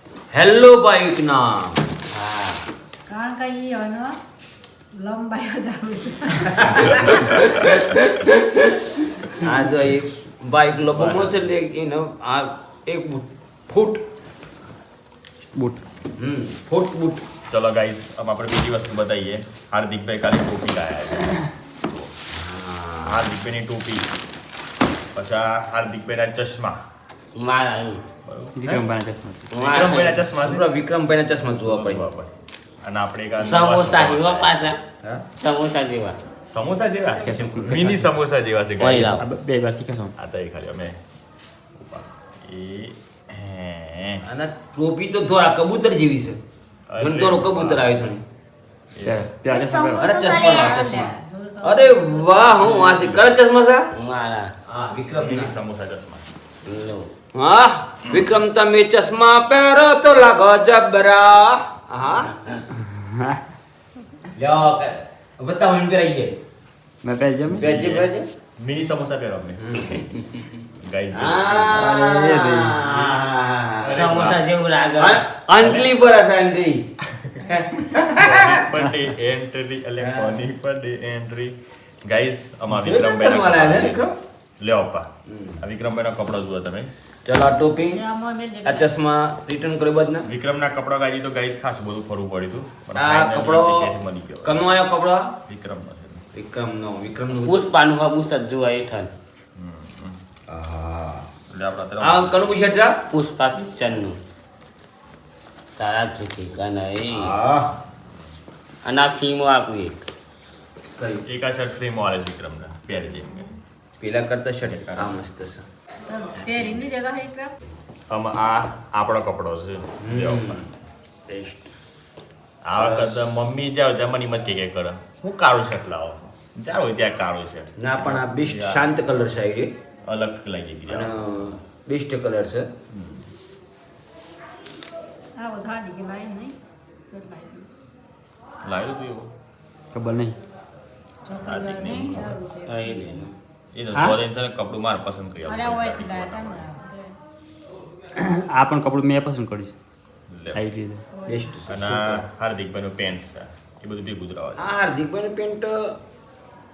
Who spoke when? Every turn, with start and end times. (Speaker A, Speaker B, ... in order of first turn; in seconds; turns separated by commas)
Speaker A: 0.3-2.6, Speaker B: 3.1-4.2, Speaker B: 5.0-7.2, Speaker A: 6.5-7.3, Speaker A: 9.4-14.0, Speaker C: 10.9-11.5, Speaker D: 15.5-15.8, Speaker A: 16.2-17.2, Speaker C: 17.5-22.1, Speaker A: 22.3-23.3, Speaker C: 23.0-24.1, Speaker C: 25.1-26.8, Speaker E: 27.4-28.0, Speaker C: 28.2-28.8, Speaker D: 28.6-29.5, Speaker E: 29.5-30.2, Speaker C: 29.6-30.6, Speaker A: 30.4-32.1, Speaker C: 31.6-34.5, Speaker E: 33.4-34.8, Speaker A: 35.0-35.3, Speaker E: 35.4-36.2, Speaker C: 36.5-39.2, Speaker D: 37.1-38.1, Speaker A: 37.3-37.9, Speaker E: 38.8-39.2, Speaker D: 39.1-40.1, Speaker C: 40.2-41.0, Speaker C: 41.8-44.2, Speaker A: 44.3-46.4, Speaker C: 46.9-48.1, Speaker A: 47.0-48.2, Speaker C: 48.9-49.3, Speaker D: 49.0-50.2, Speaker A: 50.0-53.9, Speaker B: 50.6-52.5, Speaker C: 52.6-53.2, Speaker E: 53.9-54.5, Speaker A: 54.7-55.6, Speaker C: 55.2-56.3, Speaker E: 56.6-57.1, Speaker A: 57.3-62.3, Speaker D: 62.8-63.4, Speaker A: 64.4-66.3, Speaker D: 67.0-67.7, Speaker A: 67.5-68.3, Speaker C: 67.5-70.0, Speaker A: 69.6-70.2, Speaker C: 70.7-71.8, Speaker A: 71.1-74.0, Speaker D: 71.7-72.8, Speaker C: 73.8-74.4, Speaker E: 73.9-75.3, Speaker A: 75.0-76.8, Speaker C: 75.6-75.9, Speaker C: 77.2-77.5, Speaker A: 77.5-78.6, Speaker C: 78.0-84.0, Speaker A: 80.0-80.5, Speaker A: 82.7-84.2, Speaker C: 84.6-85.1, Speaker A: 85.3-85.6, Speaker C: 85.6-86.9, Speaker A: 87.2-88.0, Speaker B: 87.9-88.9, Speaker A: 88.6-90.3, Speaker C: 90.2-94.7, Speaker A: 93.0-95.3, Speaker C: 95.5-96.2, Speaker A: 96.3-97.6, Speaker E: 97.4-99.1, Speaker C: 99.5-100.2, Speaker A: 100.5-101.3, Speaker C: 101.5-102.5, Speaker A: 102.0-103.0, Speaker E: 103.1-104.2, Speaker E: 105.8-107.3, Speaker A: 107.1-107.7, Speaker E: 108.8-110.0, Speaker A: 111.0-111.2, Speaker C: 111.2-113.5, Speaker A: 114.0-115.7, Speaker C: 114.6-115.2, Speaker B: 116.1-117.5, Speaker C: 116.4-116.8, Speaker C: 118.1-120.6, Speaker A: 120.0-120.7, Speaker A: 121.3-121.7, Speaker C: 122.7-128.9, Speaker A: 122.7-123.3, Speaker A: 127.8-129.7, Speaker C: 130.1-131.2, Speaker A: 130.9-132.7, Speaker C: 132.9-133.2, Speaker B: 135.4-136.6, Speaker B: 137.1-137.7, Speaker C: 138.7-139.3, Speaker D: 139.9-140.4, Speaker B: 141.3-143.3, Speaker C: 141.4-142.4, Speaker E: 142.7-143.3, Speaker C: 143.7-146.7, Speaker B: 145.5-147.2, Speaker D: 148.1-149.7, Speaker C: 150.3-150.6, Speaker D: 150.5-151.0, Speaker B: 151.1-151.5, Speaker A: 151.3-152.2, Speaker C: 151.7-154.7, Speaker A: 154.6-155.8